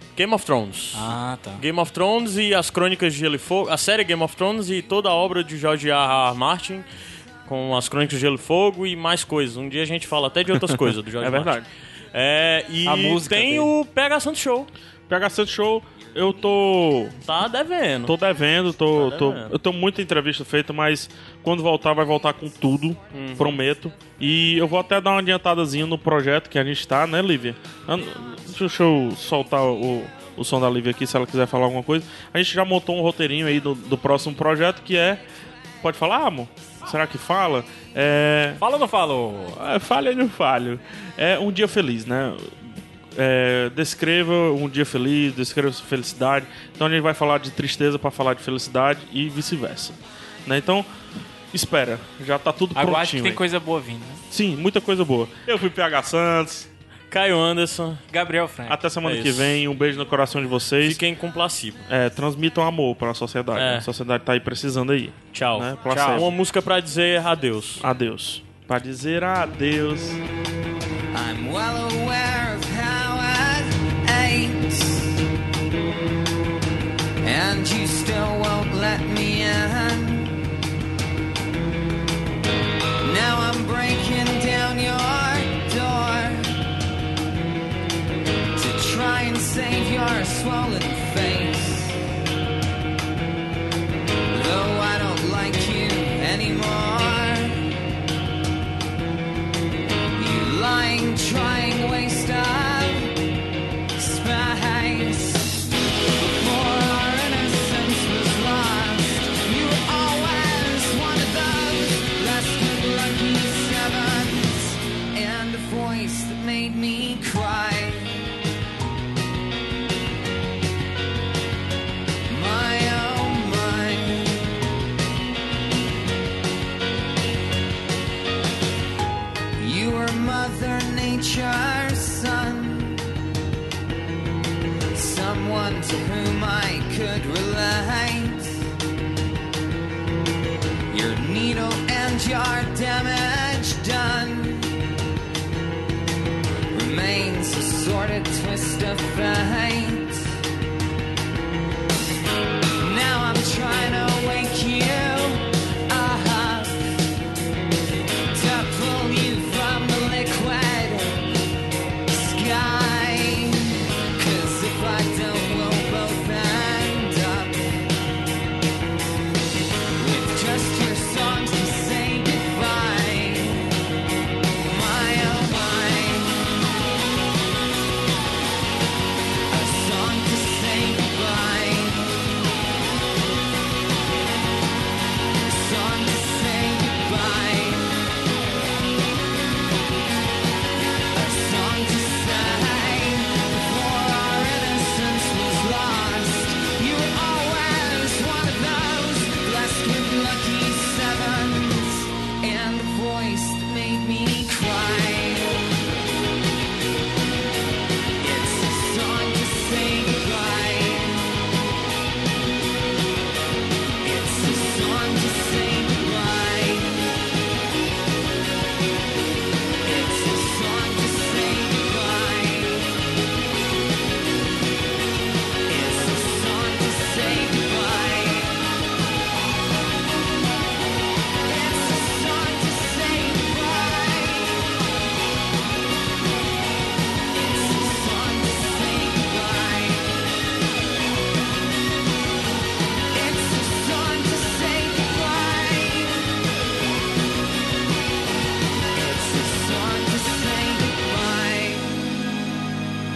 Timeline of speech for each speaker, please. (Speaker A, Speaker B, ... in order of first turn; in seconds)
Speaker A: 0.1-6.8, 7.5-11.6, 12.1-14.7, 17.3-18.1, 18.9-19.5, 23.1-23.5, 57.1-58.0, 59.0-59.6, 60.8-61.9, 63.6-63.9, 65.3-67.8
Speaker B: 0.9-1.6, 12.8-13.7, 38.6-39.6, 52.8-54.2, 58.1-58.8, 65.9-66.2
Speaker C: 11.2-11.7, 15.1-17.2, 18.1-35.2, 35.8-38.6, 39.6-42.5, 43.1-50.9, 51.5-53.4, 54.3-56.7, 58.7-61.0, 61.9-66.3, 67.8-70.2
Speaker D: 71.1-75.1, 77.2-80.4, 83.0-86.6, 88.6-92.0, 94.3-97.7, 100.2-103.2, 104.0-118.2, 122.3-124.5, 129.6-133.1, 134.9-138.6, 140.9-144.7, 146.7-150.3, 152.8-157.0, 158.3-161.3, 162.1-167.6, 170.0-173.8, 174.6-176.6, 179.5-182.3, 185.4-188.0, 191.1-205.7, 208.2-211.4, 214.0-217.1, 219.8-223.0, 225.7-228.6, 231.4-234.7, 237.3-240.2, 243.1-246.3, 248.9-252.0